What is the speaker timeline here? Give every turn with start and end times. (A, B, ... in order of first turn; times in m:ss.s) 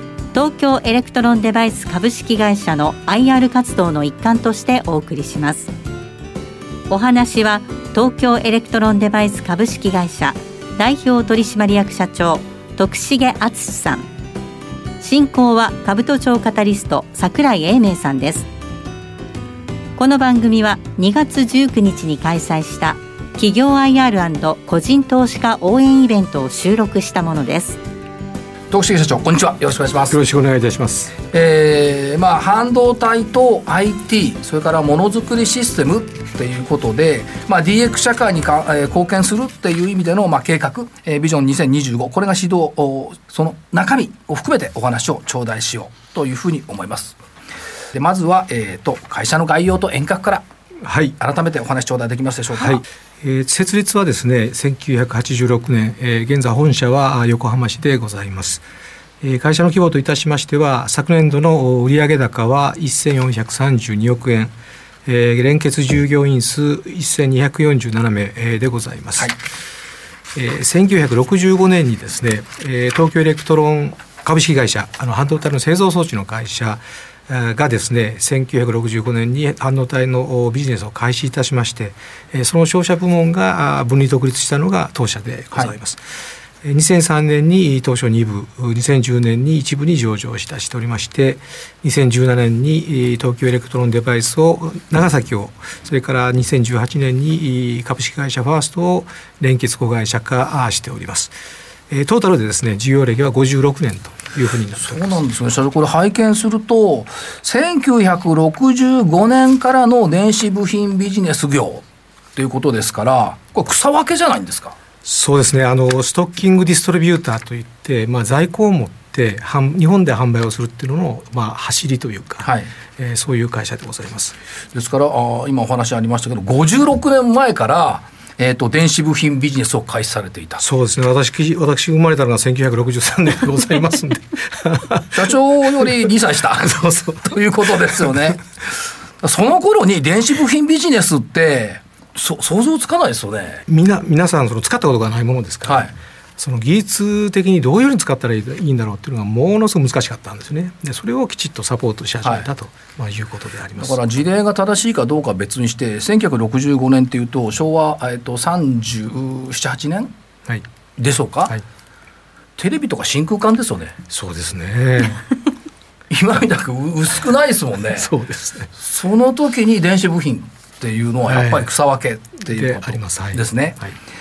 0:00.3-0:05.7 A
0:06.9-0:14.0 A
0:15.0-0:18.5 A
0:20.0-0:27.8 A
0:28.7-0:30.2 B
0:30.1-0:31.1 C
0:31.3-0:47.2 B
0:47.9-0:50.4 B
0:50.8-0:51.2 C
0:51.2-0:52.8 B
0:52.6-0:58.6 C
0:59.2-1:04.5 C
1:05.0-1:09.3 C
1:10.3-1:41.3 C
1:41.9-1:45.2 C
1:44.8-1:51.8 B
1:52.4-1:54.8 B
1:55.0-2:04.4 C
2:02.4-2:02.7 B
2:04.7-2:10.6 B
2:10.6-2:18.4 C
2:15.1-2:18.4 B
2:19.2-2:23.6 B
2:23.7-2:34.0 C
2:25.7-2:25.9 B
2:33.8-2:40.1 B
2:41.0-2:41.5 B
2:42.6-2:44.0 B
2:44.1-2:45.2 C
2:46.1-2:48.1 B
2:48.0-2:48.7 C
2:48.8-2:53.8 B
2:51.2-2:51.7 C
2:52.5-2:53.9 C